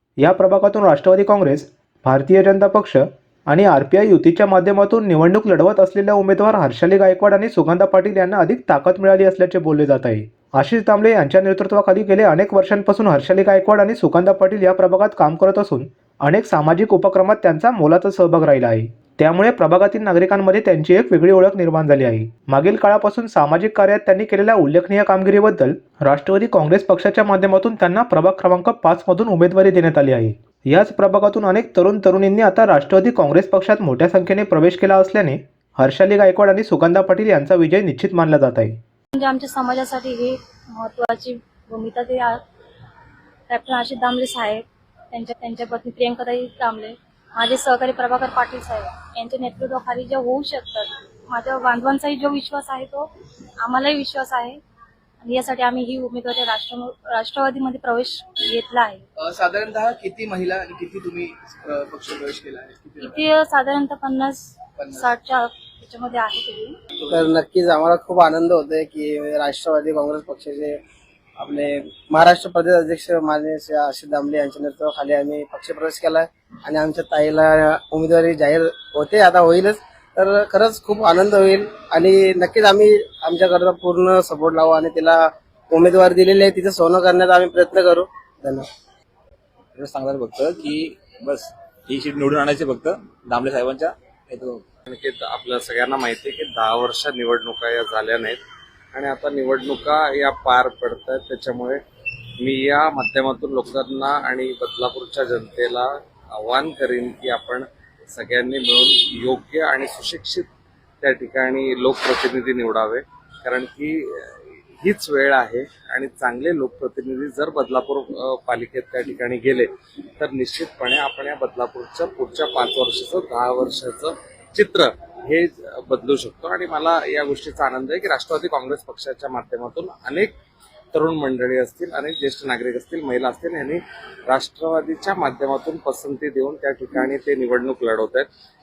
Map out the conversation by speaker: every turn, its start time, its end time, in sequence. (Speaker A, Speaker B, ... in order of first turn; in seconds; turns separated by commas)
Speaker A: 0.2-38.8, Speaker B: 39.1-42.4, Speaker B: 43.5-53.1, Speaker B: 53.6-54.6, Speaker B: 55.2-59.0, Speaker C: 59.2-63.1, Speaker B: 63.0-66.8, Speaker D: 67.1-70.8, Speaker D: 71.4-88.7, Speaker E: 89.8-94.6, Speaker F: 94.9-98.4, Speaker F: 98.9-101.8, Speaker F: 102.4-110.5, Speaker F: 111.0-130.3, Speaker F: 130.9-138.3